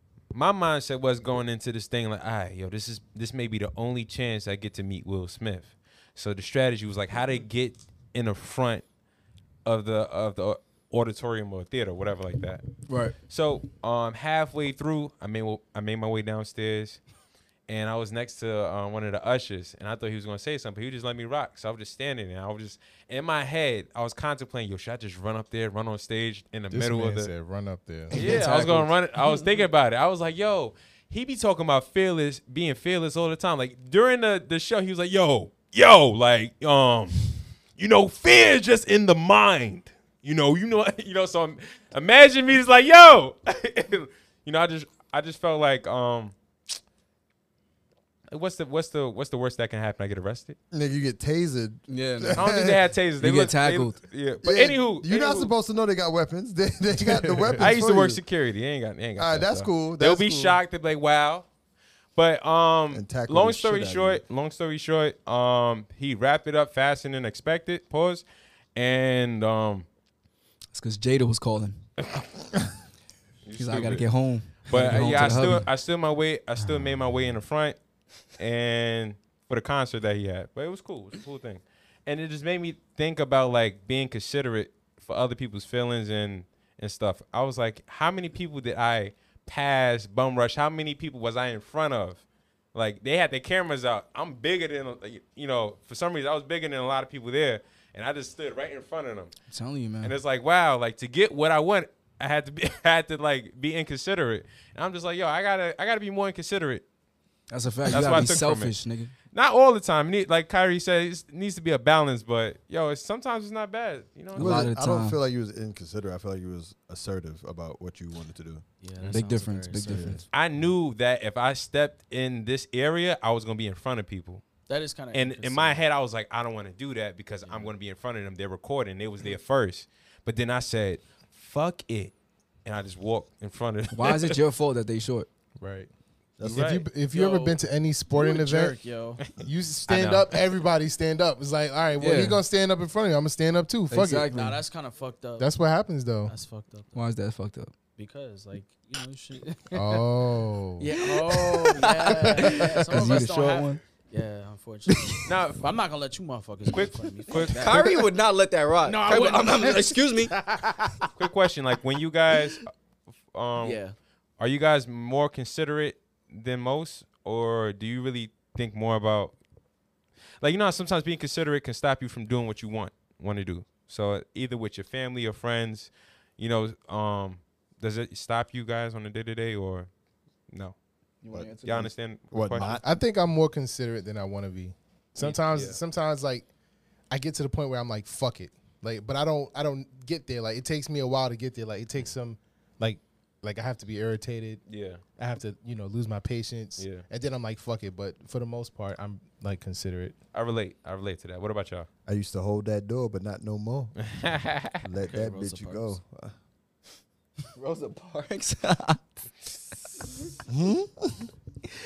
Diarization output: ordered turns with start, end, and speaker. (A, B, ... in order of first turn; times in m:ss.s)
0:00.3-0:08.8 A
0:09.6-0:12.6 A
0:12.9-0:13.1 B
0:13.3-0:17.0 A
0:17.7-0:27.3 A
0:26.7-0:28.8 C
0:28.1-0:46.3 A
0:28.2-0:28.8 B
0:48.3-0:50.6 A
0:50.7-0:52.8 D
0:51.9-0:52.4 B
0:52.4-0:55.5 A
0:53.2-0:54.0 B
0:54.4-0:58.2 D
0:57.0-0:57.7 C
0:57.6-1:01.4 A
0:59.2-1:00.6 D
1:02.1-1:08.2 A
1:02.9-1:04.2 D
1:08.8-1:09.8 A
1:10.7-1:11.8 B
1:13.4-1:14.1 A
1:13.6-1:15.6 B
1:14.6-1:17.8 A
1:18.4-1:32.2 A
1:32.7-1:39.3 A
1:39.5-1:40.1 B
1:40.0-1:46.8 A
1:47.5-1:49.1 B
1:47.9-1:48.7 A
1:49.3-1:54.7 A
1:54.3-1:58.6 D
1:54.4-1:55.2 B
1:58.8-2:00.2 E
1:59.1-2:00.2 B
1:59.9-2:00.2 D
2:00.3-2:04.4 A
2:04.7-2:05.8 E
2:05.1-2:12.1 A
2:07.4-2:07.7 E
2:12.6-2:14.4 A
2:13.9-2:15.3 B
2:15.6-2:15.9 C
2:16.4-2:16.7 D
2:16.4-2:16.9 A
2:16.5-2:18.8 C
2:17.1-2:17.6 E
2:18.1-2:19.3 E
2:19.4-2:24.3 C
2:22.0-2:22.4 B
2:23.9-2:24.6 B
2:24.3-2:25.5 E
2:25.4-2:26.4 C
2:26.3-2:27.0 E
2:26.9-2:27.7 B
2:28.0-2:30.0 E
2:29.7-2:30.9 C
2:30.8-2:38.1 E
2:31.2-2:33.8 B
2:32.3-2:32.7 C
2:34.9-2:35.2 B
2:35.2-2:35.6 A
2:36.7-2:37.8 A
2:37.5-2:40.3 B
2:38.8-2:41.1 E
2:41.2-2:42.7 A
2:43.3-2:43.8 A
2:43.6-2:44.0 E
2:44.4-2:49.3 A
2:50.4-2:59.9 A
3:01.2-3:01.9 B
3:01.3-3:01.7 D
3:01.6-3:02.8 A
3:02.3-3:02.8 D
3:02.8-3:06.5 C
3:05.2-3:05.8 A
3:07.1-3:14.6 C
3:14.7-3:15.0 A
3:15.2-3:20.2 C
3:16.8-3:17.0 A
3:20.3-3:21.9 A
3:22.0-3:23.9 D
3:24.0-3:24.8 A
3:24.8-3:26.3 D
3:25.0-3:26.0 E
3:27.6-3:29.0 B
3:30.5-3:31.3 D